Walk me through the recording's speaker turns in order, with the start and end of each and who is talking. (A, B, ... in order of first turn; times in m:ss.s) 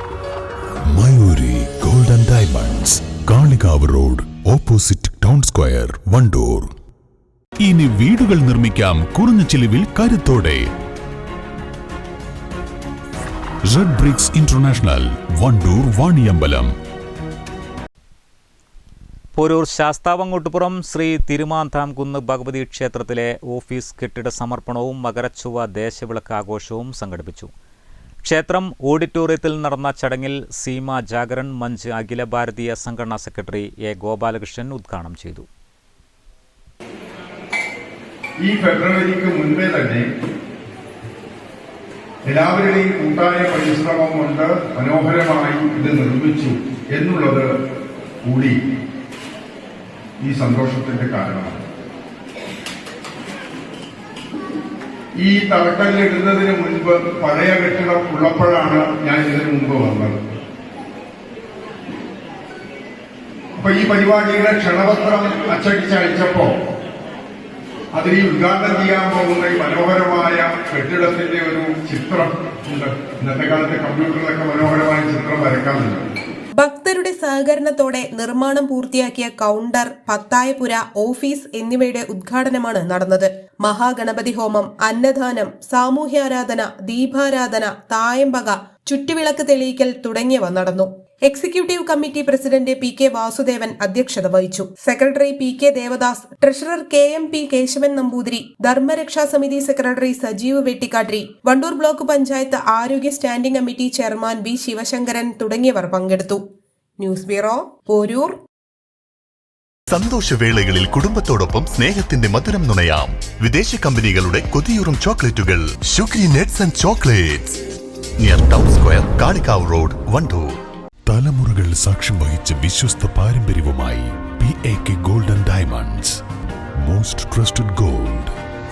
0:00.9-0:06.7 A
0:07.6-0:10.7 A
0:13.7-0:16.7 A
0:19.4-0:27.5 B
0:28.2-0:35.5 B
0:38.4-0:40.0 C
0:42.3-0:47.5 C
0:48.2-0:48.6 C
0:50.2-0:51.6 C
0:55.2-1:00.2 C
1:03.6-1:06.5 C
1:07.9-1:16.0 C
1:16.6-1:46.4 D
1:47.0-1:48.3 D
1:49.9-1:57.6 E
1:58.2-2:00.5 E
2:01.1-2:06.2 A
2:06.8-2:08.3 A